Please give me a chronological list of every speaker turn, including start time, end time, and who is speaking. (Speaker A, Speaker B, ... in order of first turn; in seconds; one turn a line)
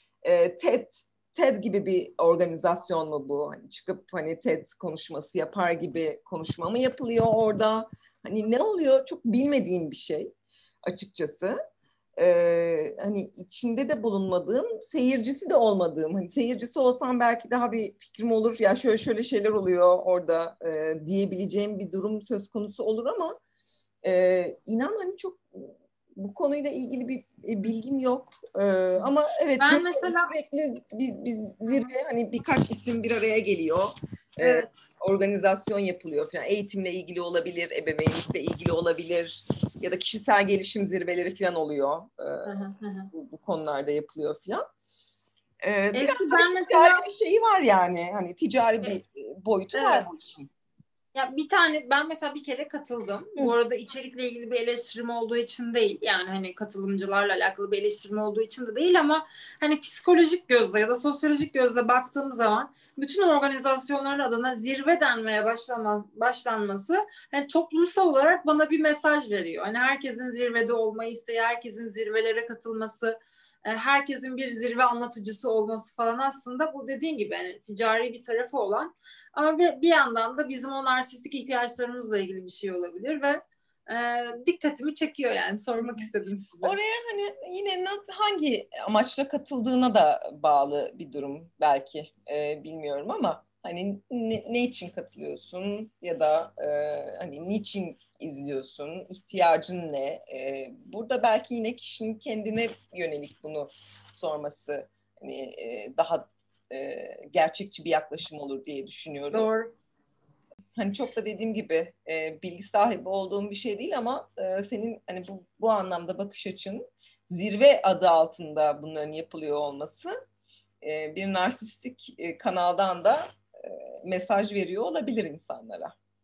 Speaker A: 0.2-10.3
Speaker A: 10.8-11.6
Speaker A: 12.2-23.4
Speaker A: 24.0-44.6
Speaker B: 29.6-30.3
Speaker B: 34.4-34.9
Speaker B: 42.4-43.1
Speaker A: 45.6-50.5
Speaker B: 45.9-47.0
Speaker B: 49.7-50.1
Speaker B: 51.1-86.7
Speaker A: 86.6-109.5
Speaker B: 109.3-109.7
Speaker A: 110.7-120.1
Speaker A: 120.8-125.9